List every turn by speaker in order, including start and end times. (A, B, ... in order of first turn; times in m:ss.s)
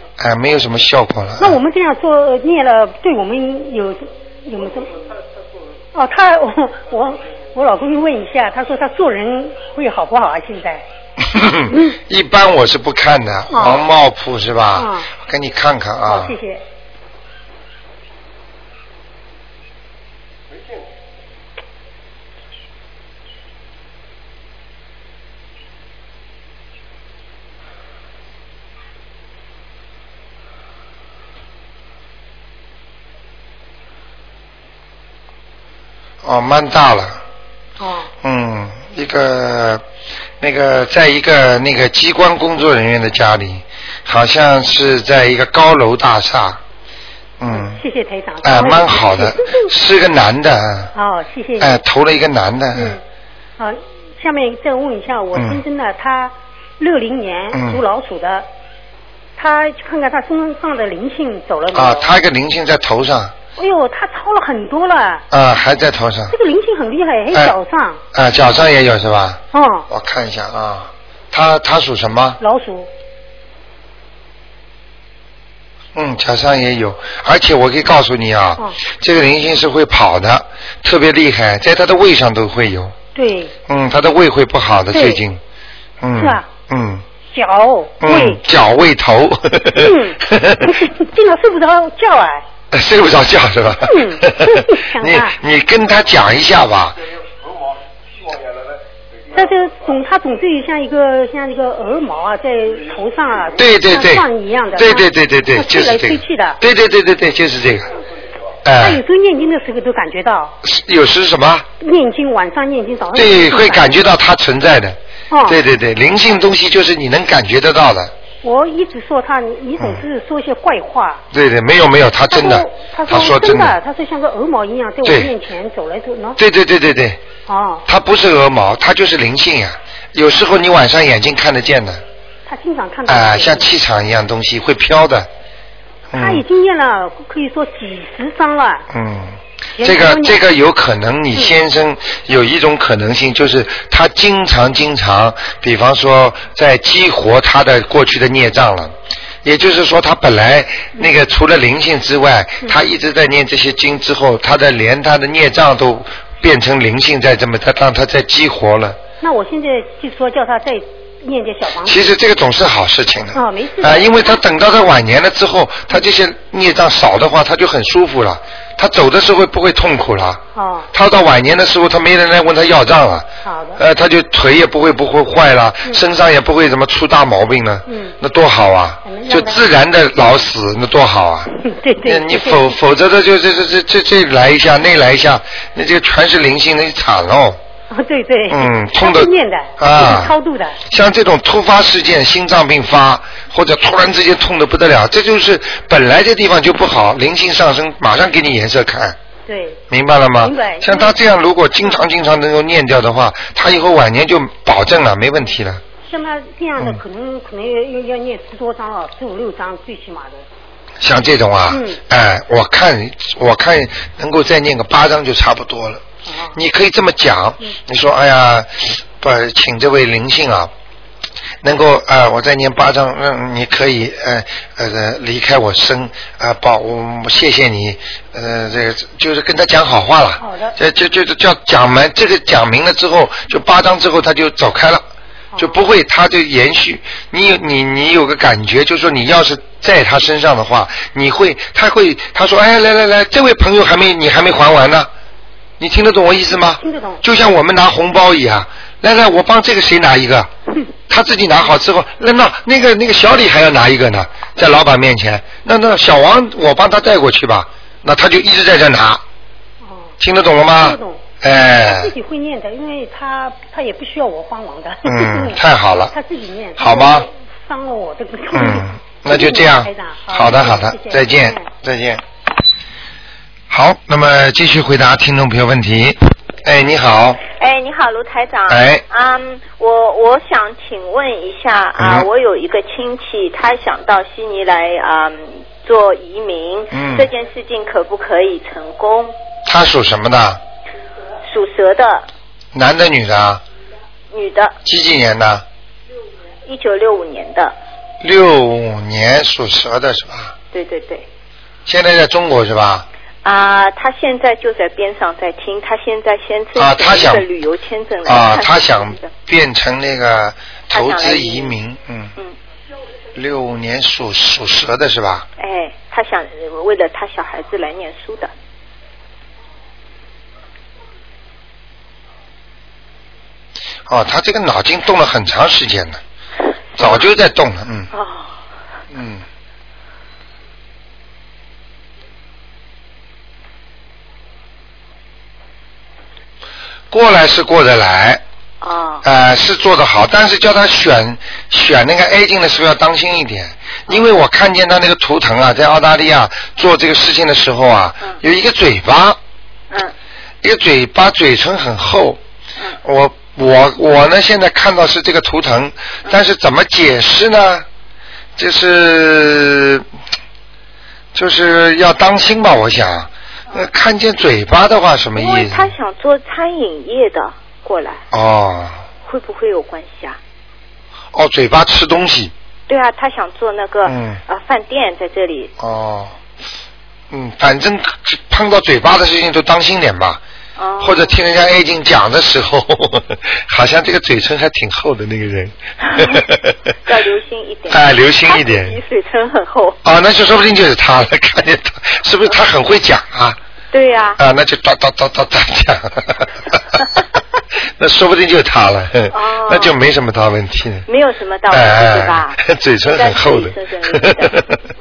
0:00.2-0:01.6 A
0:01.4-0:05.0 B
0:05.9-0:10.8 B
0:11.2-0:16.3 A
0:11.7-0:12.0 B
0:13.5-0:13.8 B
0:14.7-0:15.1 B
0:16.0-0:16.6 B
0:36.2-0:37.2 A
0:37.8-0:38.1 B
0:38.2-0:39.8 A
0:40.4-0:46.6 A
0:47.4-0:47.8 A
0:47.5-0:49.7 B
0:48.4-0:50.9 A
0:50.9-0:51.8 B
0:51.6-0:53.0 A
0:52.7-0:53.0 B
0:53.6-0:58.5 B
0:55.3-0:55.6 A
0:57.5-0:57.8 A
0:59.4-1:02.1 B
1:01.7-1:03.3 A
1:03.6-1:05.2 B
1:05.3-1:06.3 A
1:06.3-1:08.0 B
1:08.1-1:12.4 A
1:09.5-1:09.9 B
1:12.4-1:12.9 B
1:15.9-1:22.9 A
1:23.1-1:23.5 B
1:23.7-1:25.4 A
1:24.9-1:25.2 B
1:26.0-1:27.0 A
1:26.1-1:26.5 B
1:27.3-1:28.4 B
1:28.0-1:30.7 A
1:29.7-1:32.4 B
1:32.7-1:37.0 A
1:33.8-1:35.4 B
1:39.3-1:46.6 B
1:43.5-1:47.9 A
1:48.6-1:49.0 A
1:48.8-1:50.6 B
1:50.6-1:51.7 A
1:51.8-1:53.9 B
1:53.1-1:58.1 A
1:55.3-1:55.6 B
1:58.4-2:01.2 B
2:01.3-2:03.8 A
2:02.3-2:06.4 B
2:05.0-2:05.3 A
2:06.4-2:07.2 A
2:07.5-2:07.8 B
2:07.9-2:12.0 A
2:12.4-2:13.7 B
2:13.0-2:15.3 A
2:16.1-2:16.4 A
2:16.1-2:18.8 B
2:18.9-2:39.0 A
2:19.8-2:20.4 B
2:39.2-2:42.1 B
2:41.8-2:50.4 A
2:43.3-2:44.2 B
2:50.5-2:50.9 B
2:50.9-3:01.5 A
2:53.4-2:53.8 B
2:57.8-2:58.2 B
2:59.0-2:59.6 B
3:01.5-3:02.8 B
3:02.0-3:07.6 A
3:07.9-3:10.8 B
3:08.5-3:10.3 A
3:10.9-3:19.2 A
3:19.5-3:19.8 B
3:19.9-3:25.8 A
3:20.4-3:21.1 B
3:26.0-3:30.4 B
3:31.0-3:36.0 A
3:31.7-3:32.0 B
3:36.2-3:36.6 B
3:36.5-3:40.7 A
3:41.6-3:55.0 A
3:50.4-3:50.8 B
3:55.6-4:05.1 A
4:05.8-4:10.5 A
4:06.8-4:07.2 B
4:11.1-4:19.2 A
4:19.8-4:31.7 B
4:20.2-4:22.1 A
4:25.0-4:26.1 A
4:26.8-4:27.3 A
4:28.5-4:32.2 A
4:33.7-4:37.4 A
4:37.4-4:49.3 C
4:38.7-4:39.0 A
4:42.0-4:42.2 A
4:46.9-4:47.3 A
4:49.6-4:50.6 A
4:51.4-4:52.3 C
4:52.7-4:53.6 A
4:54.3-4:54.8 C
4:54.8-4:55.6 A
4:56.6-4:57.8 C
4:58.2-5:00.5 A
5:00.7-5:01.3 C
5:01.8-5:03.0 A
5:03.4-5:09.3 C
5:06.8-5:07.4 A
5:08.2-5:12.3 A
5:10.9-5:11.7 C
5:13.3-5:15.4 A
5:15.6-5:18.5 C
5:24.1-5:26.2 A
5:27.0-5:28.1 A
5:27.0-5:27.3 C
5:28.1-5:28.5 C
5:29.1-5:29.4 A
5:37.1-5:38.4 A
5:38.8-5:39.2 C
5:39.2-5:49.4 A
5:50.6-5:52.4 A
5:53.0-5:57.8 A
5:58.6-6:00.0 A
6:01.3-6:05.9 A
6:05.3-6:08.2 C
6:08.3-6:09.0 A
6:09.2-6:10.4 C
6:11.3-6:12.5 A
6:12.9-6:15.7 C
6:14.0-6:14.4 A
6:15.8-6:16.3 A
6:17.3-6:20.4 A
6:20.8-6:21.4 C
6:21.0-6:26.9 A
6:27.0-6:30.0 C
6:27.9-6:29.0 A
6:30.0-6:33.6 A
6:33.9-6:34.4 C
6:34.4-6:36.6 A
6:38.0-6:41.1 A
6:39.3-6:40.0 C
6:41.1-6:44.6 C
6:41.7-6:44.8 A